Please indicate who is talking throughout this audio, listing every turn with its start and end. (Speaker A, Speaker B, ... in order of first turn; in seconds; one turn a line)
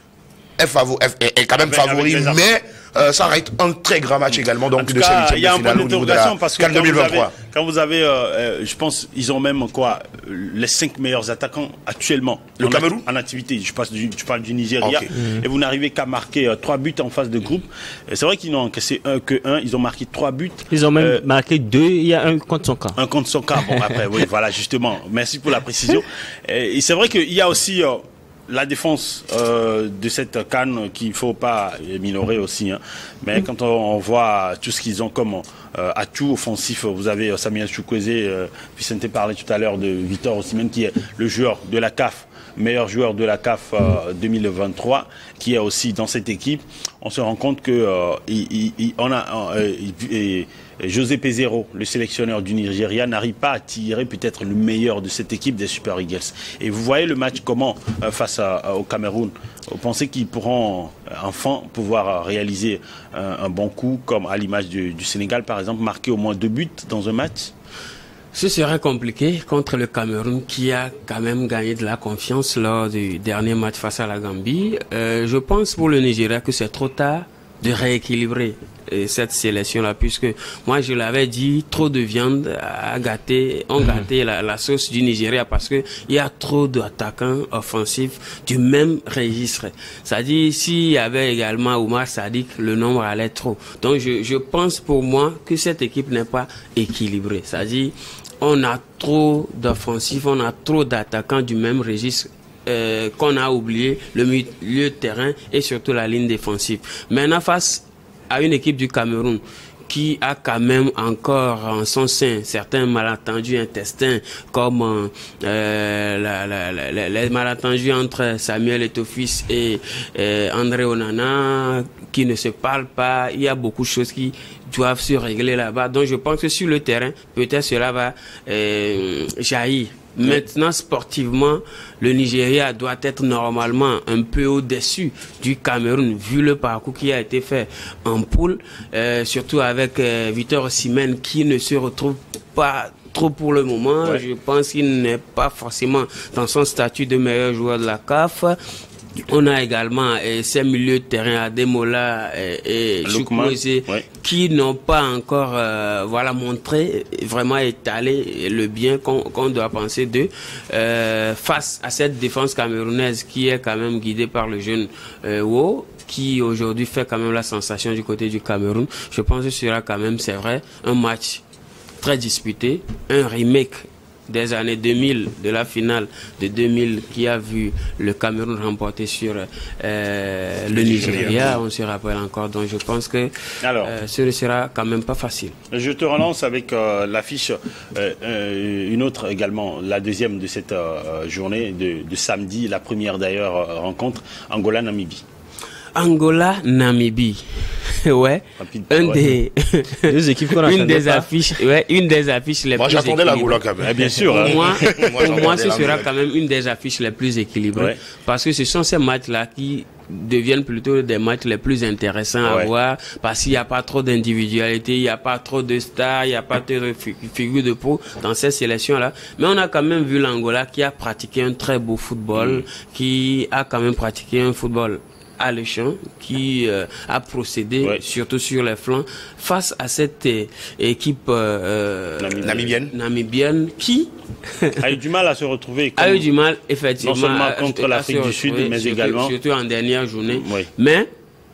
Speaker A: 0.6-7.3
Speaker B: 1.6-2.5
Speaker B: 4.3-21.2
Speaker A: 12.6-13.0
Speaker A: 14.8-15.1
Speaker C: 20.7-23.0
Speaker B: 22.9-67.5
Speaker D: 68.3-148.6
Speaker D: 149.2-171.4
Speaker B: 153.0-154.0
Speaker D: 172.0-185.5
Speaker B: 180.7-181.6
Speaker B: 183.6-183.9
Speaker B: 185.7-195.2
Speaker D: 195.9-203.6
Speaker B: 198.6-199.2
Speaker C: 200.1-201.3
Speaker A: 202.8-206.1
Speaker B: 203.8-205.4
Speaker D: 204.2-234.8
Speaker B: 222.3-222.6
Speaker B: 232.2-232.8
Speaker A: 232.4-232.9
Speaker B: 234.8-236.3
Speaker D: 235.9-241.1
Speaker B: 237.0-239.3
Speaker B: 240.3-240.7